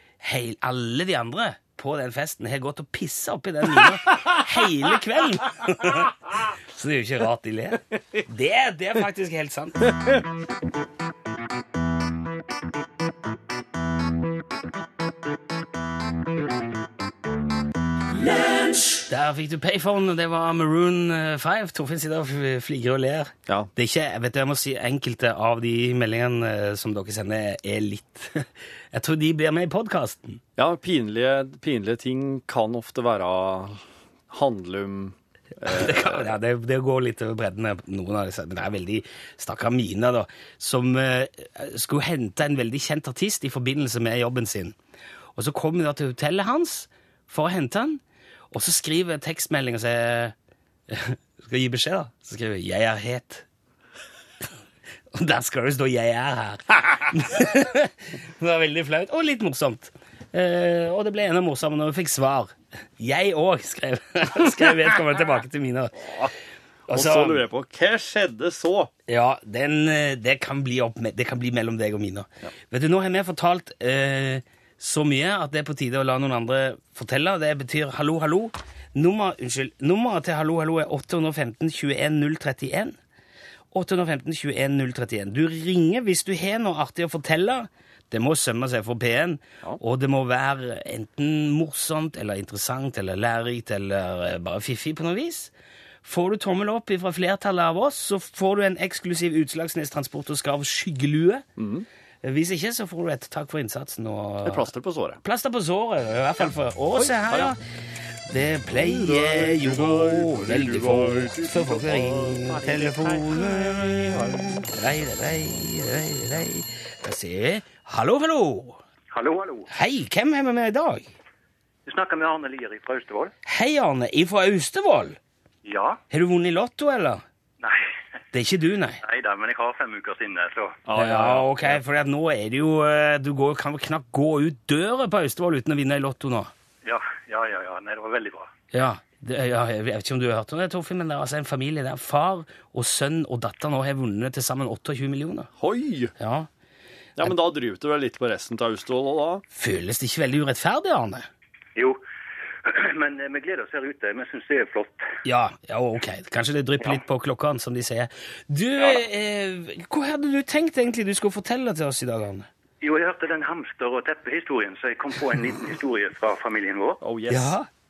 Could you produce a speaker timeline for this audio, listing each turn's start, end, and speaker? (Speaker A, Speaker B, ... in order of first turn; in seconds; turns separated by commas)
Speaker A: 0.2-10.1, Speaker A: 19.0-30.4, Speaker B: 30.6-36.3, Speaker A: 35.6-44.7, Speaker A: 45.3-50.3, Speaker A: 50.9-53.5, Speaker A: 55.1-66.2, Speaker B: 66.0-66.3, Speaker A: 66.9-67.4, Speaker B: 66.9-68.9, Speaker A: 69.1-83.0, Speaker A: 83.7-95.5, Speaker A: 96.0-101.4, Speaker B: 101.6-101.9, Speaker A: 102.2-104.7, Speaker B: 104.4-105.2, Speaker A: 105.2-107.6, Speaker B: 106.9-107.5, Speaker A: 108.3-118.8, Speaker B: 108.7-114.6, Speaker C: 119.1-119.7, Speaker A: 119.7-121.1, Speaker C: 121.8-123.3, Speaker A: 123.5-125.2, Speaker C: 125.6-126.0, Speaker A: 126.1-127.2, Speaker A: 128.3-129.0, Speaker C: 129.0-130.8, Speaker B: 130.8-131.8, Speaker A: 130.9-136.5, Speaker C: 136.8-138.5, Speaker A: 138.7-145.5, Speaker B: 145.6-146.1, Speaker A: 146.2-146.5, Speaker B: 147.2-149.4, Speaker A: 149.5-151.3, Speaker C: 152.6-155.0, Speaker A: 155.2-162.5, Speaker C: 162.8-167.0, Speaker B: 167.0-167.6, Speaker A: 167.3-167.7